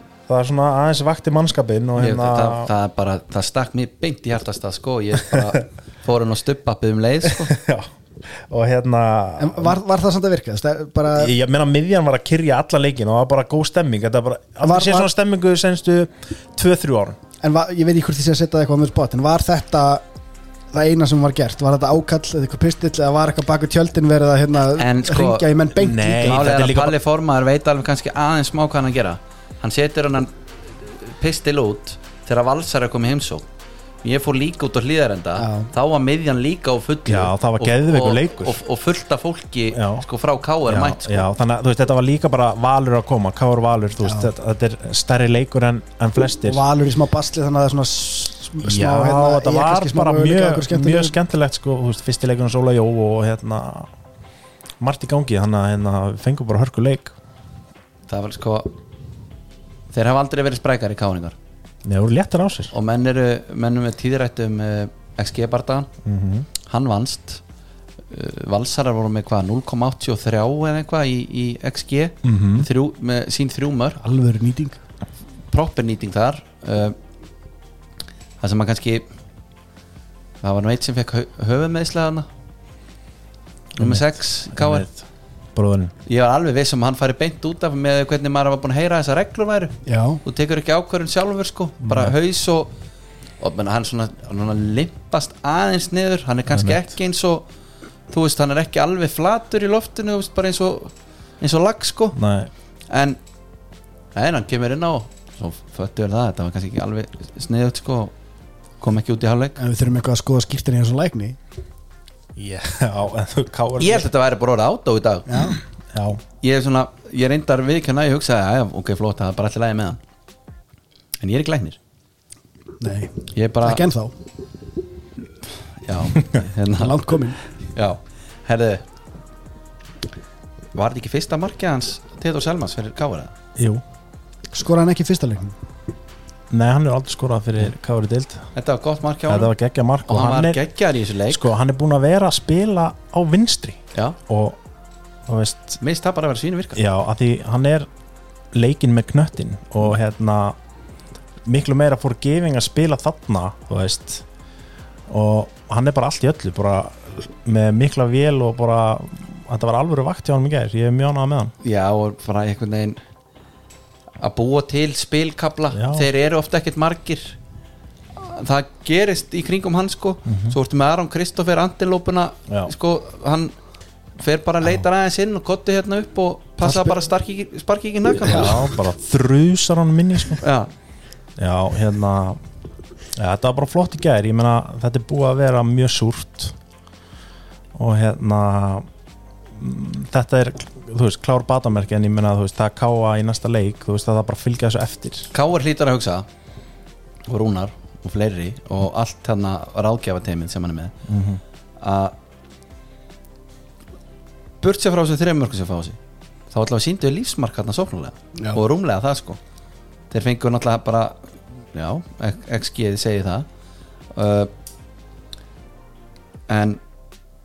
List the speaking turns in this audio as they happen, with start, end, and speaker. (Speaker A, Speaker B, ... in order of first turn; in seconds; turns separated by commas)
Speaker A: 0.3-2.7, Speaker B: 2.0-7.5, Speaker A: 7.2-9.8, Speaker C: 9.4-11.3, Speaker A: 11.1-17.2, Speaker C: 14.6-15.1, Speaker C: 17.4-20.0, Speaker C: 20.7-26.4, Speaker B: 24.8-25.5, Speaker A: 25.8-27.0, Speaker B: 26.2-30.3, Speaker B: 30.9-33.5, Speaker B: 34.0-41.2, Speaker C: 35.4-35.7, Speaker A: 37.0-38.6, Speaker A: 39.7-40.0, Speaker A: 40.7-46.6, Speaker C: 46.5-51.1, Speaker A: 48.6-53.9, Speaker A: 54.8-57.1, Speaker B: 58.1-58.8, Speaker B: 59.9-61.4, Speaker A: 61.8-62.7, Speaker B: 62.7-65.9, Speaker A: 66.0-66.5, Speaker B: 66.6-67.4, Speaker B: 68.1-74.0, Speaker A: 72.2-72.7, Speaker C: 74.0-74.8, Speaker B: 75.5-77.0, Speaker B: 78.4-79.0, Speaker B: 80.4-82.3, Speaker B: 83.8-84.9, Speaker A: 83.8-85.0, Speaker A: 85.5-85.9, Speaker B: 86.1-92.7, Speaker C: 89.9-90.2, Speaker A: 91.8-92.2, Speaker B: 93.4-97.5, Speaker A: 96.5-96.9, Speaker B: 98.1-102.2, Speaker A: 102.1-102.5, Speaker B: 102.9-103.2, Speaker B: 104.2-108.1, Speaker B: 108.8-109.6, Speaker C: 109.6-111.4, Speaker A: 112.4-114.1, Speaker B: 113.8-115.5, Speaker C: 115.3-115.6, Speaker A: 115.9-116.2, Speaker B: 116.4-120.0, Speaker B: 121.2-121.8, Speaker C: 122.8-124.1, Speaker B: 123.3-123.8, Speaker B: 125.8-127.0, Speaker C: 126.8-127.4, Speaker B: 127.7-128.8, Speaker B: 130.8-133.3, Speaker A: 133.6-133.8, Speaker C: 134.5-135.6, Speaker A: 136.5-138.5, Speaker B: 138.6-139.5, Speaker A: 139.3-140.6, Speaker B: 140.1-141.4, Speaker A: 141.3-144.6, Speaker A: 145.3-145.8, Speaker B: 145.8-146.8, Speaker A: 146.8-147.9, Speaker A: 148.5-150.6, Speaker A: 151.4-154.2, Speaker A: 155.1-161.5, Speaker B: 161.6-163.0, Speaker B: 164.2-167.3, Speaker A: 165.7-166.1, Speaker B: 168.2-173.6, Speaker A: 170.3-170.6, Speaker B: 174.2-178.7, Speaker C: 176.6-177.0, Speaker A: 178.2-180.4, Speaker C: 178.2-178.6, Speaker B: 180.4-180.7, Speaker A: 181.4-182.4, Speaker A: 183.2-186.6, Speaker A: 187.8-188.9, Speaker A: 189.6-195.3, Speaker B: 195.3-196.3, Speaker B: 197.3-200.9, Speaker A: 201.1-201.4, Speaker B: 201.8-202.2, Speaker B: 204.6-206.0, Speaker B: 206.5-209.4, Speaker B: 210.1-211.2, Speaker B: 211.7-213.5, Speaker B: 214.1-214.5, Speaker B: 216.5-216.8